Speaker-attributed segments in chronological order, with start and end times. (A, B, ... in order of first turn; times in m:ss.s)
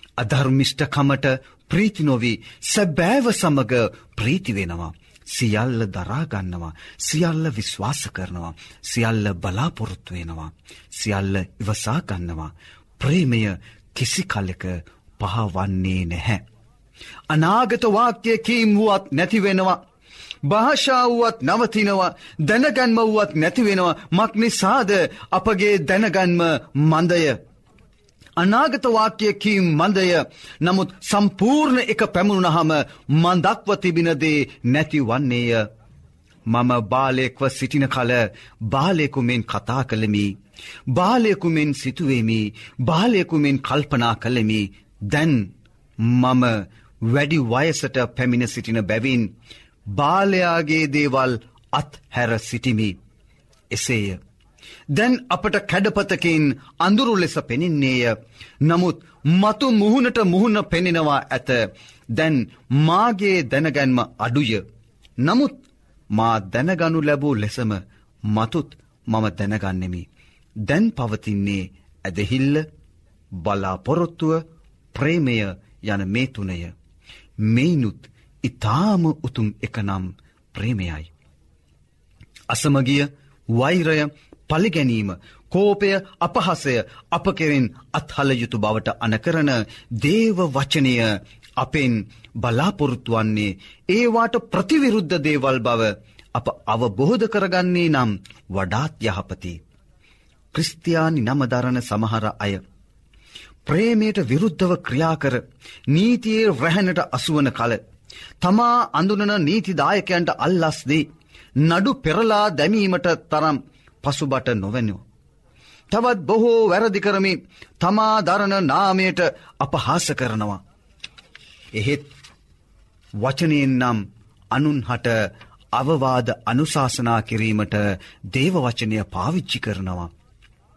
0:00.2-0:16.4 A
0:17.3-0:19.8 A
0:20.4-0:27.4 A
0:28.4-0:35.7 A
0:36.5-0:40.4 A
0:40.9-0:45.5 A
0:46.0-0:49.3 A
0:50.0-0:53.0 A
0:53.7-0:54.2 A
0:54.9-1:04.6 A
1:05.2-1:05.6 A
1:06.1-1:10.1 A
1:10.7-1:12.7 A
1:13.3-1:16.7 A
1:17.4-1:21.1 A
1:22.5-1:39.6 A
1:40.5-1:42.6 A
1:43.7-1:47.8 A
1:48.4-1:51.1 A
1:51.6-1:55.0 A
1:55.9-2:00.6 A
2:01.8-2:02.1 A
2:03.2-2:05.2 A
2:05.7-2:10.1 A